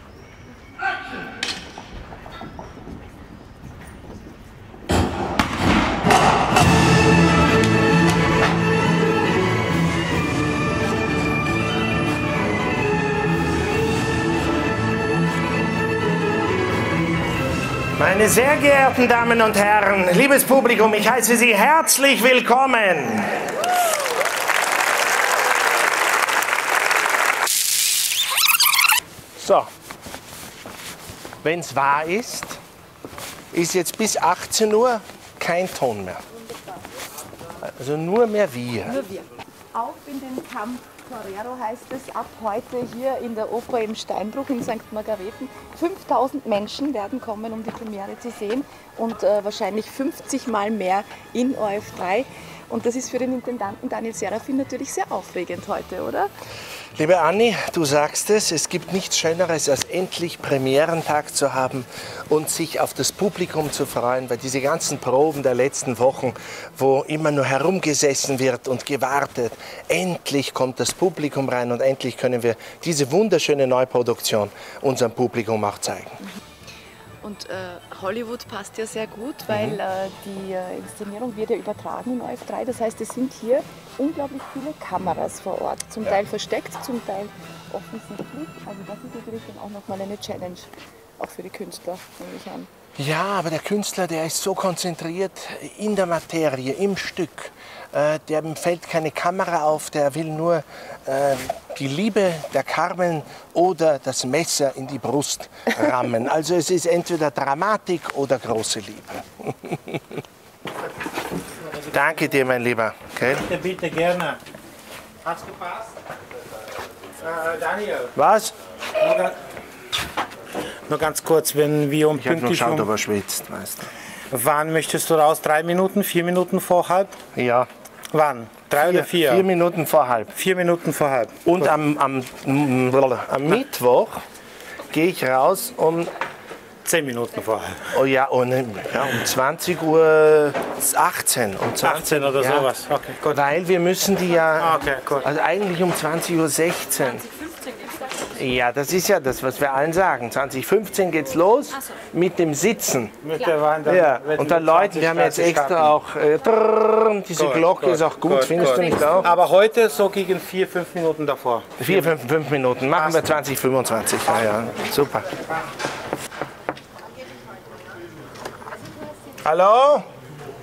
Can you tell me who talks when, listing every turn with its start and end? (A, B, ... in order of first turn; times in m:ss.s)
0:18.0-0:23.5 A
0:29.4-0:29.7 A
0:31.4-0:32.6 A
0:33.5-0:36.2 A
0:37.6-0:39.0 A
0:38.8-0:56.3 B
0:57.0-1:16.2 A
1:17.2-1:32.7 B
1:19.5-1:19.8 A
1:33.0-1:50.0 A
1:51.9-1:53.4 A
1:53.3-1:54.4 C
1:55.2-1:55.9 C
1:57.2-1:58.1 C
1:58.1-1:58.5 A
1:59.0-1:59.4 C
2:00.9-2:02.9 C
2:02.1-2:03.9 A
2:04.3-2:07.1 C
2:07.3-2:07.7 A
2:08.1-2:09.4 C
2:08.8-2:10.3 A
2:10.3-2:11.6 C
2:11.4-2:14.2 A
2:14.9-2:16.1 A
2:16.8-2:17.9 C
2:17.9-2:27.3 A
2:21.8-2:23.4 C
2:24.6-2:25.2 C
2:28.3-2:33.2 A
2:33.2-2:35.9 C
2:33.8-2:39.3 A
2:37.4-2:42.0 C
2:41.8-2:45.3 A
2:43.0-2:43.2 C
2:49.4-2:50.0 A